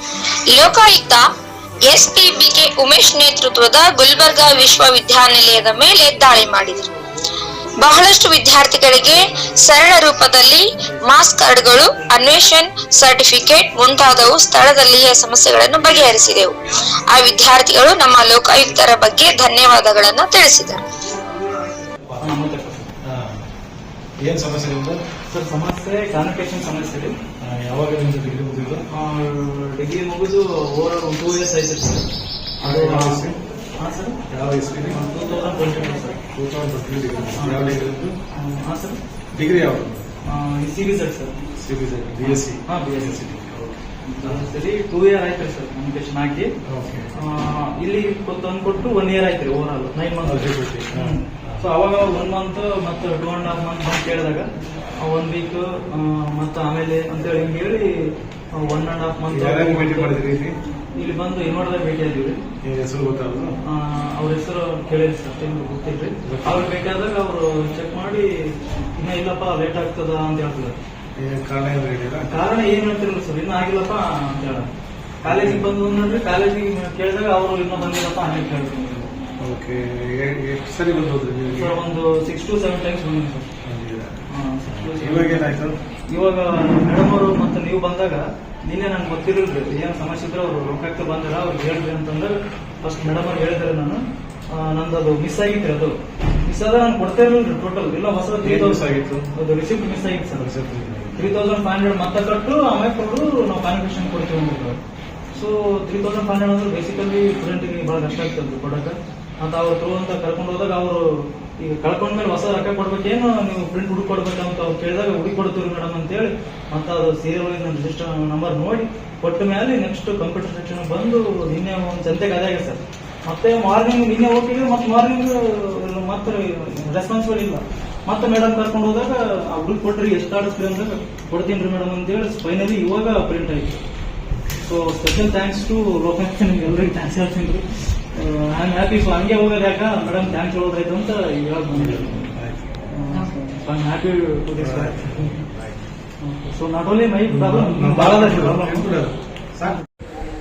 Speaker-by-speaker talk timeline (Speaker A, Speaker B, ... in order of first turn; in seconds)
Speaker A: 0.5-1.3, 1.8-6.9, 7.8-16.6, 17.1-20.8
Speaker B: 22.2-22.9, 25.3-27.2, 28.9-32.1, 32.6-34.2, 34.9-36.2, 37.4-39.0, 40.3-41.4, 42.2-43.2, 44.0-46.5, 47.1-54.5, 55.0-60.2, 61.0-62.4, 63.7-70.8, 72.3-74.7, 75.2-79.1, 81.5-83.5, 84.3-85.6, 86.1-100.5, 101.2-104.8, 105.3-133.8, 134.6-142.3, 142.9-145.4, 146.2-149.0
Speaker C: 23.0-23.4, 24.2-25.0, 27.4-28.9, 32.6-33.4, 34.3-35.0, 36.3-38.2, 39.3-40.1, 41.6-44.4, 46.7-47.1, 50.2-51.6, 59.3-60.5, 62.6-63.6, 66.2-66.7, 71.2-72.3, 75.2-75.8, 79.4-81.8, 83.6-85.8, 98.4-99.3, 100.3-101.3, 141.7-142.7, 144.6-145.7, 147.3-149.8